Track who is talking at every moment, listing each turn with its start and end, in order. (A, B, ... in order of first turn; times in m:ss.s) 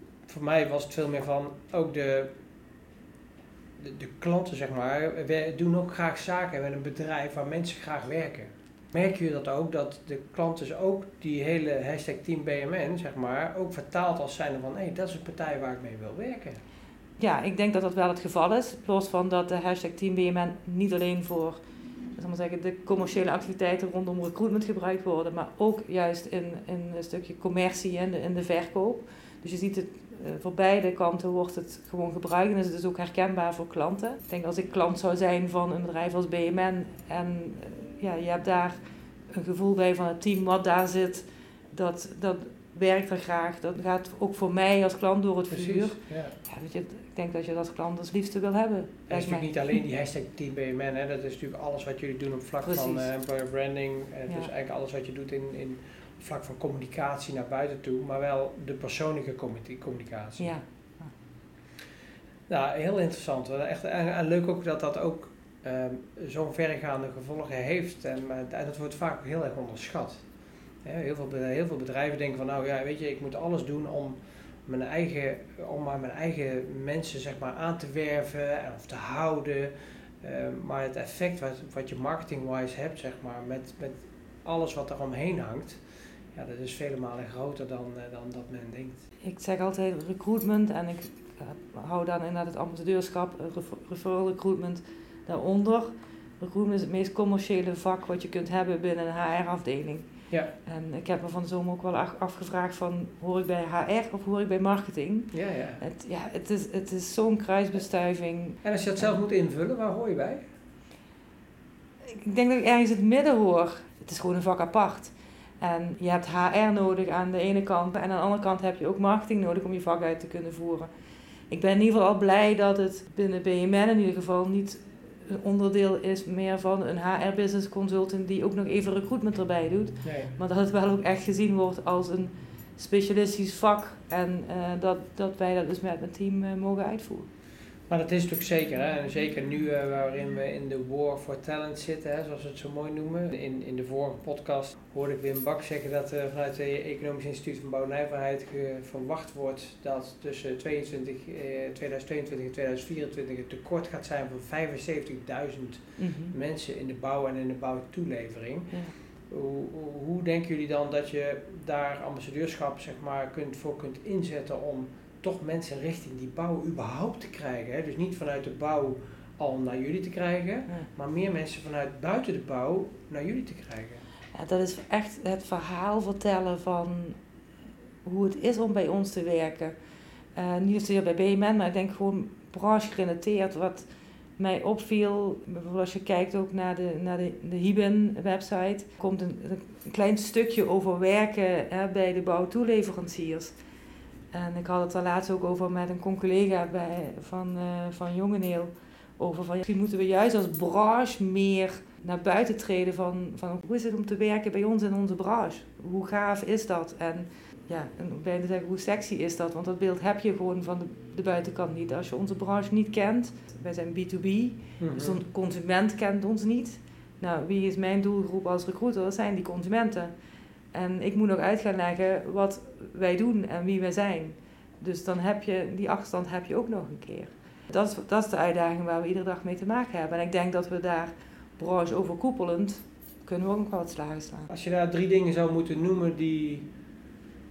0:00.3-0:02.3 A
0:03.8-0:16.6 A
0:17.2-0:21.6 B
0:22.2-0:38.8 B
0:39.3-0:49.5 B
0:45.5-0:46.4 A
0:49.1-1:00.5 A
0:52.6-0:53.1 B
1:00.4-1:01.1 B
1:02.5-1:10.2 A
1:10.8-1:25.8 A
1:26.3-1:29.0 A
1:29.2-1:40.1 B
1:40.6-1:49.0 B
1:45.3-1:45.8 A
1:48.6-1:50.5 A
1:52.0-2:00.9 B
2:01.5-2:17.3 B
2:10.0-2:10.3 A
2:17.9-2:38.8 A
2:36.0-2:36.4 B
2:39.3-2:54.0 A
2:54.3-2:57.2 B
2:58.0-2:59.8 B
3:00.3-3:03.8 B
3:04.4-3:13.5 B
3:14.3-3:40.1 B
3:34.8-3:35.2 A
3:40.7-3:54.5 B
3:54.5-3:56.7 A